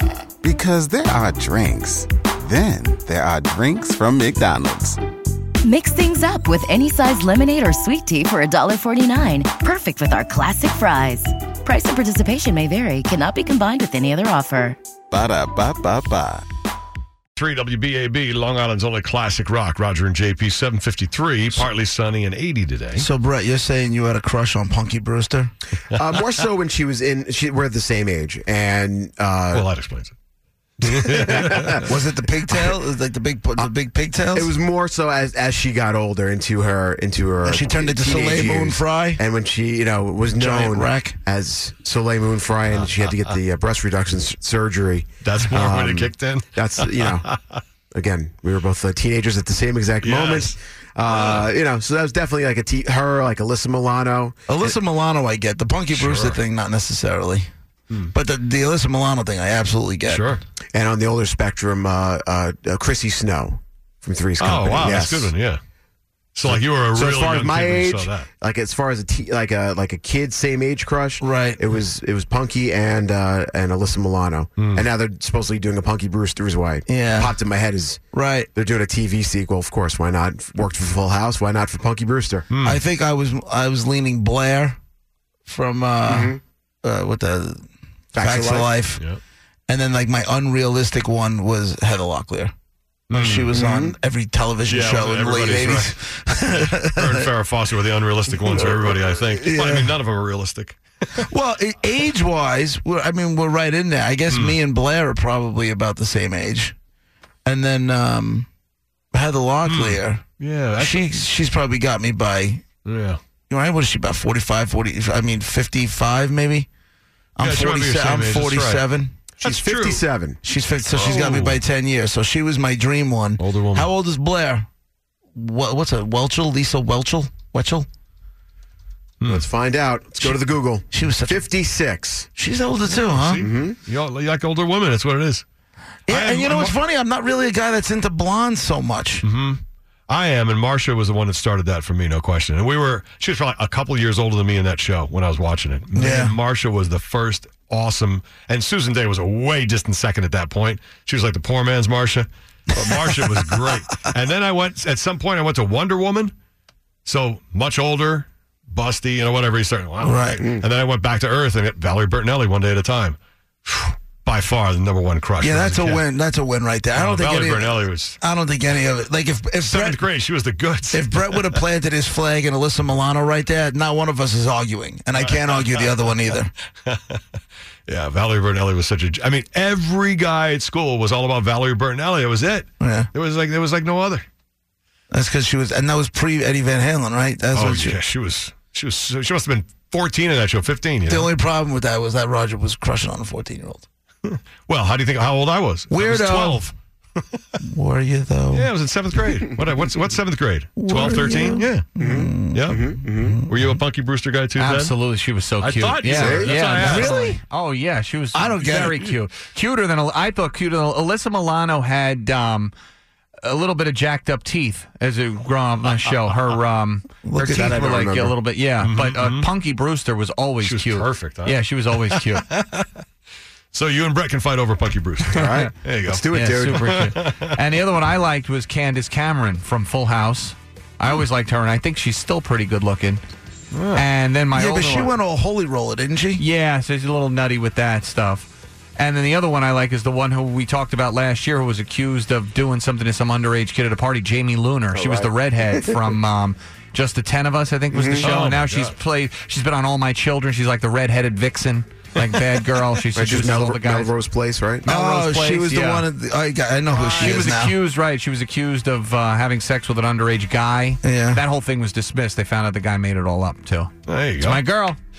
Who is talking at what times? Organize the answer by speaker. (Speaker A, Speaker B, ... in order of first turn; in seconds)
Speaker A: 0.4-5.0, 15.1-16.4
Speaker B: 5.6-14.8
Speaker C: 17.4-23.1, 29.5-30.1, 30.8-31.9, 45.2-47.6, 50.0-50.5, 51.1-51.5, 55.9-56.4, 60.1-60.4, 64.4-65.6, 66.3-68.3, 74.6-74.9, 82.5-82.8, 93.1-93.5, 94.7-96.0, 96.6-101.3, 104.3-104.6, 109.7-111.1, 112.8-113.2, 117.4-118.8, 119.4-120.0, 120.9-121.6, 123.4-123.9, 129.2-129.5, 133.0-135.5, 136.1-136.8, 139.2-156.3, 157.1-166.0, 166.9-168.2, 169.6-171.6, 175.1-176.1, 176.8-177.2, 177.9-184.3, 187.5-191.3, 194.2-197.4, 198.5-201.9, 202.5-202.8, 203.5-204.9, 205.6-207.3, 218.8-219.5, 220.6-222.9, 223.7-227.6, 233.7-234.1, 248.2-249.0, 264.1-264.7
Speaker D: 22.9-25.5, 31.8-34.5, 37.4-39.2, 40.4-41.2, 54.5-57.5, 58.1-60.3, 71.2-71.6, 76.9-77.3, 78.1-78.5, 82.6-84.8, 85.5-89.1, 89.7-92.5, 93.1-97.3, 98.5-100.0, 101.2-106.8, 107.5-108.5, 109.1-110.2, 110.8-112.7, 113.5-116.7, 117.4-119.1, 120.4-124.7, 125.3-127.9, 130.9-131.5, 132.4-133.5, 136.1-139.2, 145.9-146.4, 152.8-153.8, 160.0-160.4, 165.4-170.0, 170.9-176.5, 182.8-183.1, 185.1-188.0, 191.1-193.8, 195.9-196.7, 197.6-198.7, 200.8-203.7, 206.7-207.4, 208.3-209.1, 217.2-217.8, 234.5-236.4, 254.8-257.8, 261.0-261.4
Speaker E: 25.9-29.7, 30.8-31.9, 34.3-47.3, 47.9-54.7, 60.7-65.3, 66.5-78.0, 78.5-82.5, 86.1-86.4, 88.2-88.7, 93.5-94.0, 119.4-120.4, 129.3-132.3, 133.4-133.8, 202.0-203.4, 206.0-207.1, 217.5-218.4, 225.2-227.2, 244.9-246.1, 247.9-248.4, 253.2-254.9
Speaker F: 204.6-212.7, 213.4-222.5, 226.3-233.2, 233.9-235.1, 236.4-254.1, 254.9-256.1, 256.9-265.0